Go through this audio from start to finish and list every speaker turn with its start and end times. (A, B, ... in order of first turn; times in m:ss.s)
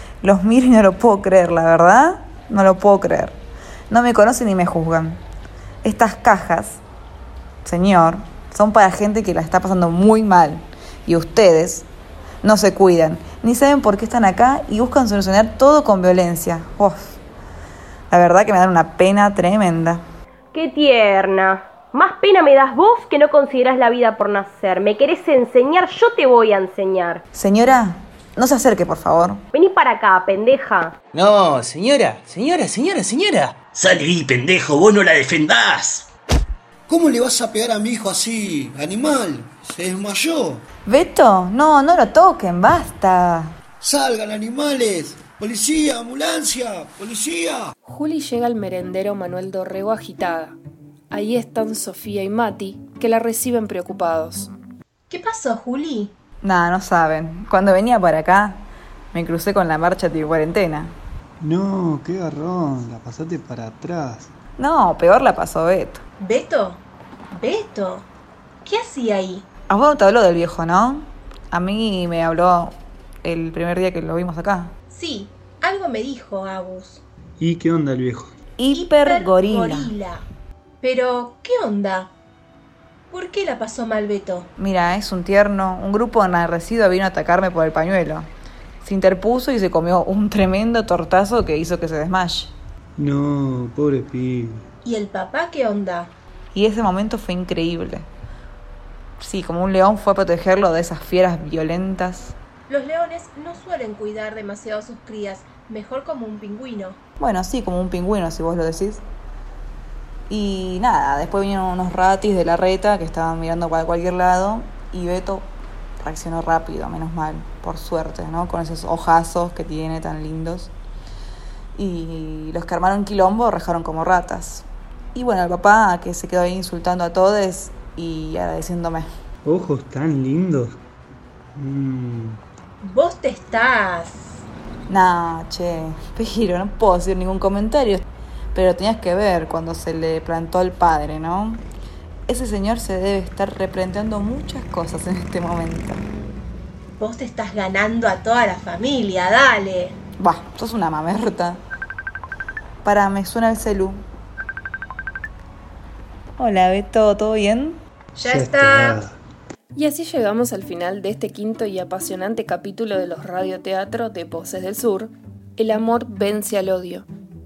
0:00.2-0:03.4 A
0:03.9-0:05.2 A
0:05.8-0:06.8 A
0:07.6-0:11.9 A
0:12.4-0:17.2 A
0:18.1-0:20.0 A
0:20.5-0:27.2 B
0:27.3-0:29.4 A
0:29.5-0:30.9 B
0:31.1-0:33.6 C
0:33.7-0:36.1 D
0:36.9-0:40.6 E
0:40.8-0:43.6 A
0:43.8-0:47.7 E
0:47.8-0:50.6 F
0:51.1-0:54.5 F
0:55.1-0:56.1 G
0:56.4-1:00.9 A
1:01.4-1:04.3 H
1:04.6-1:06.0 A
1:06.2-1:06.8 G
1:07.3-1:08.0 G
1:08.6-1:09.4 G
1:09.7-1:14.7 A
1:14.9-1:17.0 G
1:17.4-1:18.3 H
1:18.6-1:19.9 A
1:18.7-1:20.2 G
1:20.8-1:22.1 G
1:23.1-1:24.5 G
1:24.6-1:28.3 A
1:28.8-1:32.5 A
1:33.0-1:34.6 H
1:34.8-1:36.1 G
1:36.5-1:38.1 A
1:39.2-1:42.3 A
1:42.7-1:47.0 G
1:47.2-1:49.0 A
1:50.3-1:55.5 A
1:56.0-2:00.7 A
2:01.8-2:09.1 A
2:09.4-2:10.8 H
2:11.6-2:12.4 H
2:12.8-2:14.3 G
2:14.9-2:21.6 A
2:22.3-2:26.0 A
2:27.0-2:30.0 G
2:30.2-2:31.6 A
2:32.8-2:34.0 A
2:36.4-2:37.8 A
2:38.2-2:39.0 G
2:38.2-2:39.1 H
2:39.7-2:47.1 F